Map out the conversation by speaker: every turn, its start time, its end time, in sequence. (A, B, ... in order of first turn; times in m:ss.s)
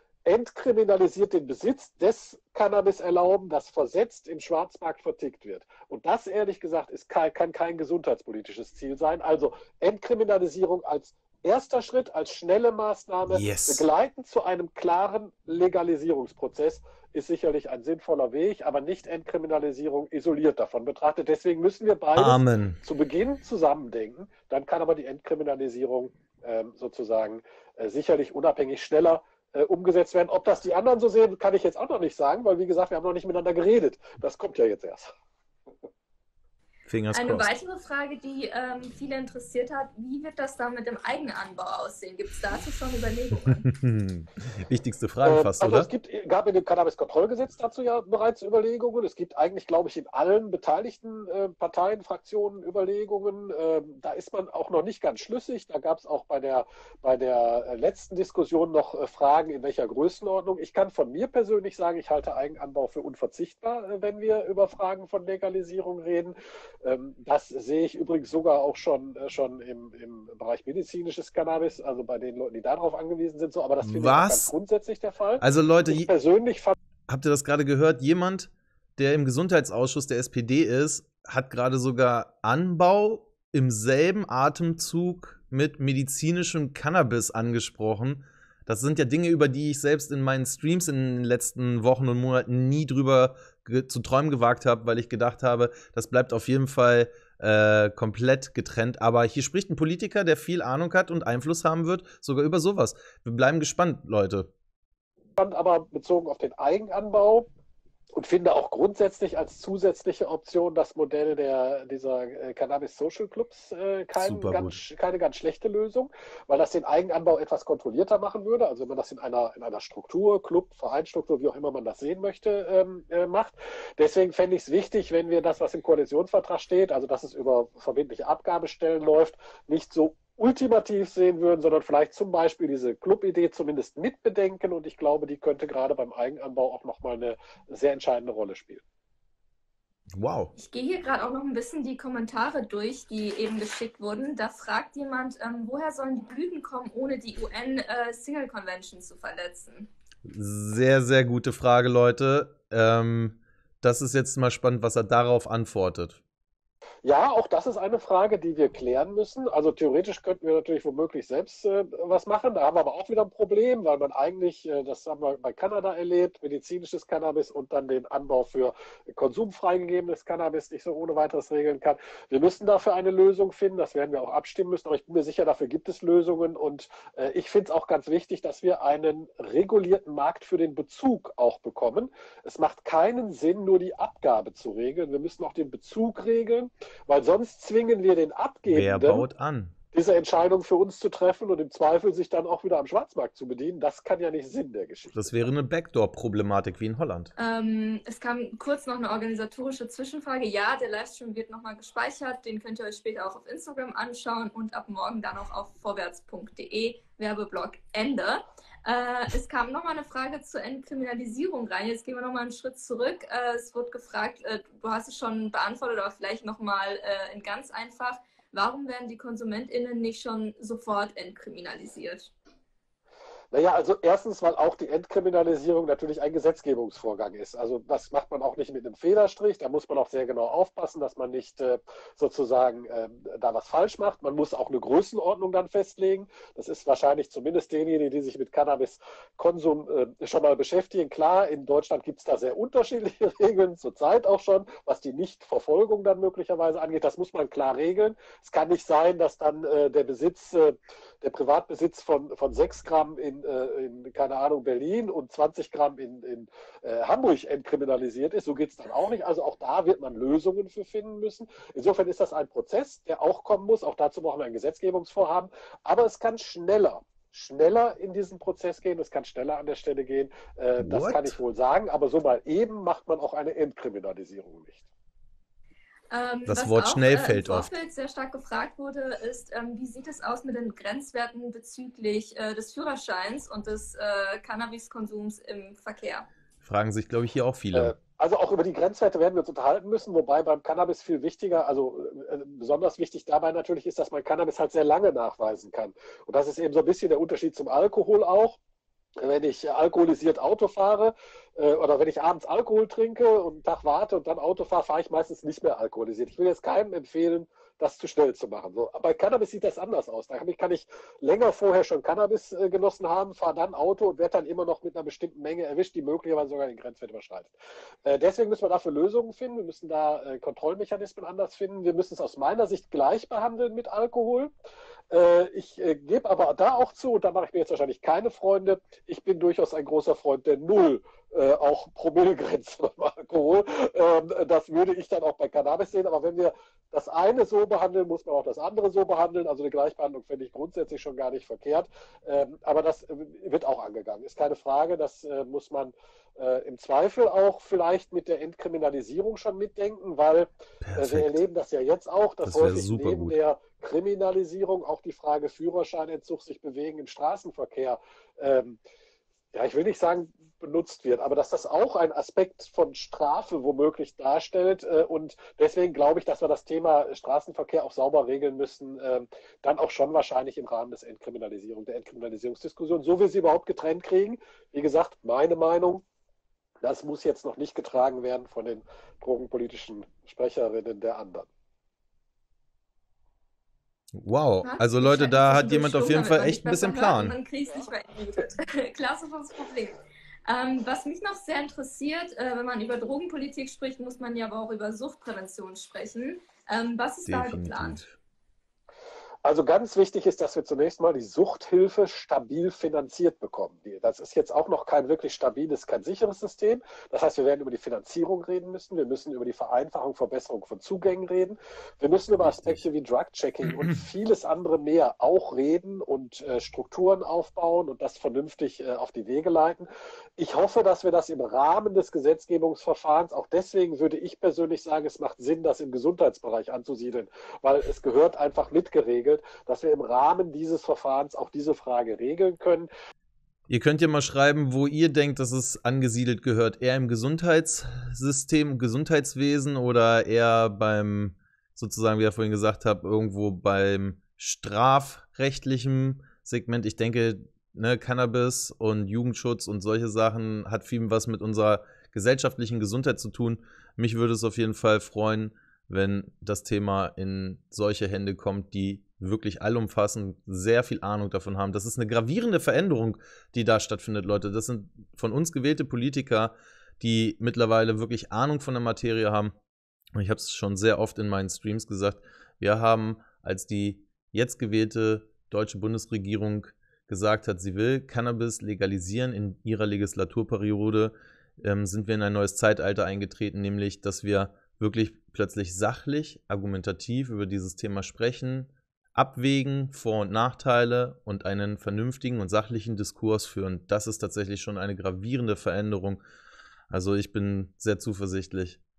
0:00.2-0:35.1 A
0:13.3-0:13.9 B
0:22.2-0:22.8 B
0:36.8-0:37.5 B
0:37.1-0:43.6 C
0:43.5-0:45.9 B
0:45.2-1:16.7 A
1:13.8-1:14.5 B
1:15.4-1:16.1 B
1:17.1-1:44.5 B
1:45.4-1:47.5 A
1:48.1-2:18.8 A
1:54.2-1:54.8 B
2:20.1-2:20.5 B
2:20.6-2:29.9 C
2:30.2-2:36.2 B
2:37.0-3:09.3 A
3:08.6-3:09.7 B
3:09.9-3:15.5 A
3:15.1-3:17.3 B
3:17.4-3:42.3 C
3:43.5-4:34.8 A
4:30.8-4:31.4 B
4:36.1-4:46.3 C
4:36.4-4:37.8 B
4:46.6-4:47.9 B
4:47.7-4:58.6 A
4:59.2-5:17.5 A
5:18.0-5:24.5 A
5:25.1-5:58.8 A
5:50.8-5:51.4 B
5:52.4-5:53.4 B
5:59.5-6:16.0 A
6:16.8-6:21.5 A
6:24.1-6:27.4 B
6:24.6-6:38.0 C
6:37.2-6:38.1 B
6:39.4-7:12.9 A
6:52.4-6:52.8 B
6:53.6-6:54.0 B
7:13.7-7:49.5 B
7:50.1-8:16.2 B
8:16.9-8:18.8 B